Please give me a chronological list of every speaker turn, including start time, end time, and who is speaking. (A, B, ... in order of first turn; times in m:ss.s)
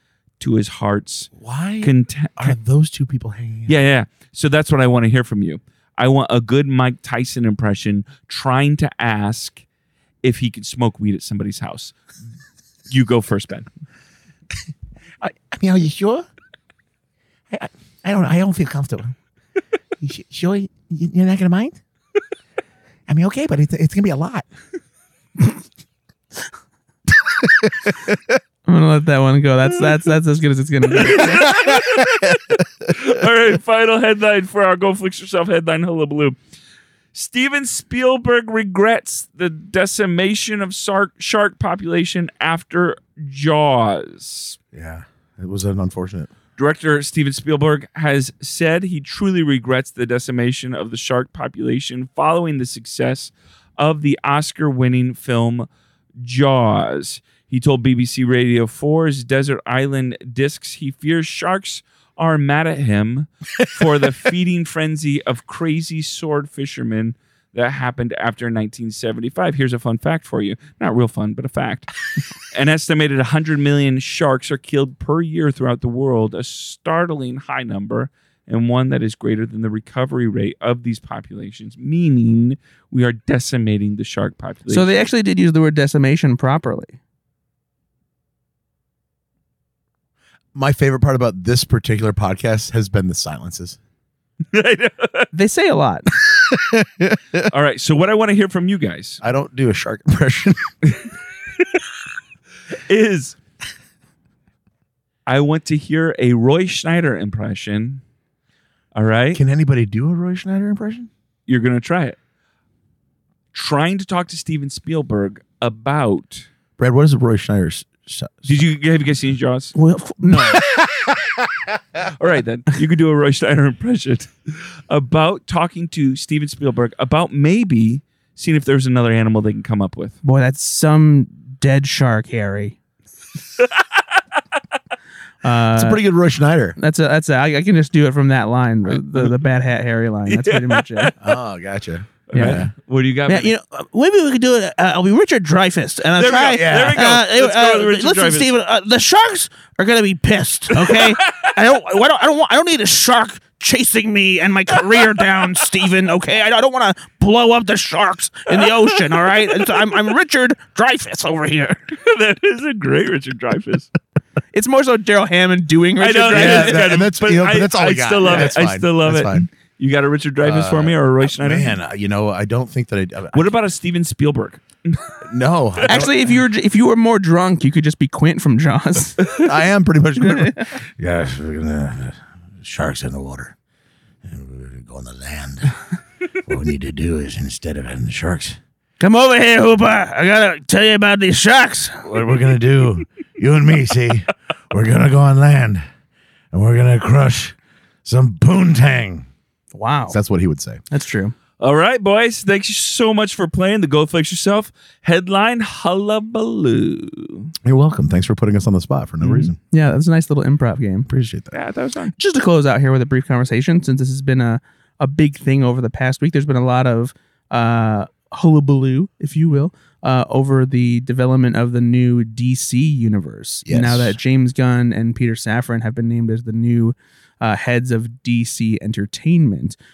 0:00.4-0:02.6 A
0:01.4-0:03.8 B
0:03.7-0:09.6 A
0:10.2-0:12.0 A
0:12.9-0:13.7 A
0:15.2-0:16.3 B
0:17.5-0:19.2 B
0:20.0-0:21.8 B
0:23.1-0:24.4 B
0:27.3-0:28.4 B
0:28.7-0:31.5 C
0:30.9-0:36.4 A
0:31.4-0:32.4 B
0:37.1-0:44.6 A
0:44.7-0:46.3 B
0:46.6-0:55.7 A
0:56.2-1:11.9 A
1:12.5-1:24.9 A
1:24.7-1:27.0 C
1:30.6-1:33.8 B
1:34.5-1:35.3 A
1:35.3-1:36.1 C
1:36.2-1:37.5 B
1:37.5-1:39.2 A
1:39.2-1:40.7 B
1:41.6-1:41.8 A
1:42.7-1:43.4 A
1:45.3-1:48.0 A
1:48.9-1:49.4 A
1:49.3-1:51.1 B
1:51.5-1:52.2 A
1:53.5-1:56.5 A
1:56.8-1:58.6 B
1:58.5-1:59.7 A
1:59.8-2:00.6 C
2:00.5-2:01.4 B
2:02.0-2:10.2 A
2:10.2-2:12.8 C
2:13.6-2:14.0 A
2:15.4-2:16.0 C
2:15.8-2:16.8 B
2:16.8-2:21.1 C
2:18.9-2:19.3 A
2:20.3-2:21.2 A
2:21.2-2:22.7 B
2:22.3-2:23.5 A
2:22.3-2:22.7 C
2:23.3-2:41.8 C
2:26.2-2:28.5 A
2:26.3-2:27.0 B
2:30.8-2:31.5 A
2:42.0-2:43.9 A
2:44.5-2:46.8 C
2:46.0-2:51.7 A
2:46.3-2:49.5 B
2:50.4-2:53.5 B
2:53.3-2:55.2 A
2:55.2-2:56.3 B
2:55.8-2:59.5 C
2:59.4-3:03.6 B
3:00.2-3:00.8 C
3:04.2-3:05.8 B
3:06.4-3:08.6 B
3:09.0-3:12.1 C
3:12.0-3:15.8 B
3:16.5-3:19.3 B
3:19.8-3:20.2 C
3:20.1-3:20.8 B
3:20.9-3:21.4 C
3:21.6-3:27.5 A
3:27.6-3:29.6 B
3:29.2-3:31.1 C
3:31.1-3:31.6 B
3:31.5-3:32.1 A
3:32.2-3:49.8 C
3:43.7-3:44.2 B